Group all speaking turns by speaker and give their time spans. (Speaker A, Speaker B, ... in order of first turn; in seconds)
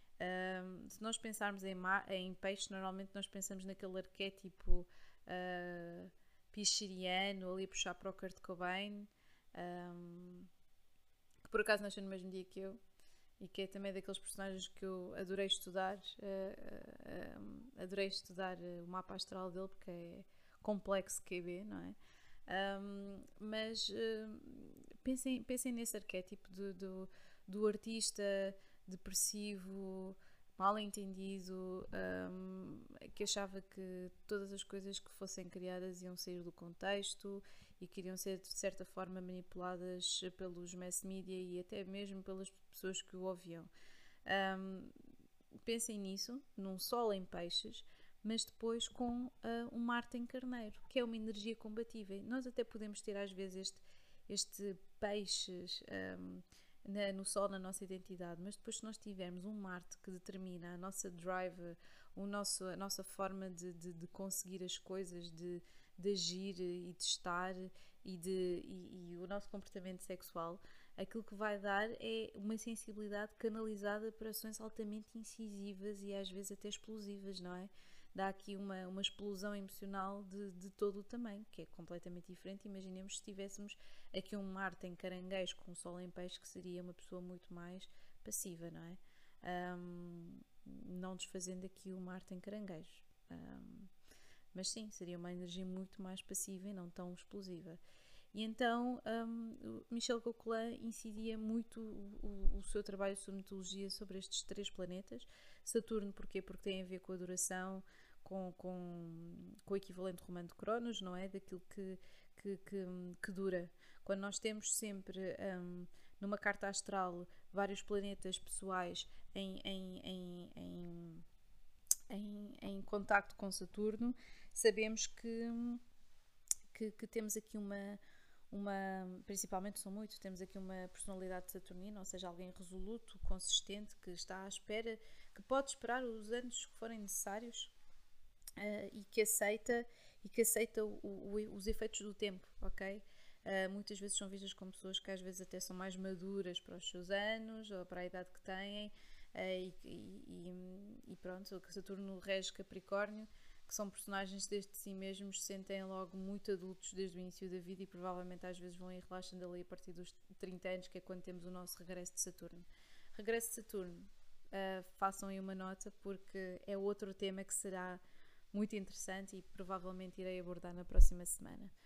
Speaker A: 0.2-10.5, 11.4-12.8, 13.4-43.7, 44.3-44.9, 45.7-93.9, 94.5-97.8, 98.3-121.2, 122.1-125.8, 126.7-128.0, 128.5-137.7, 138.6-171.7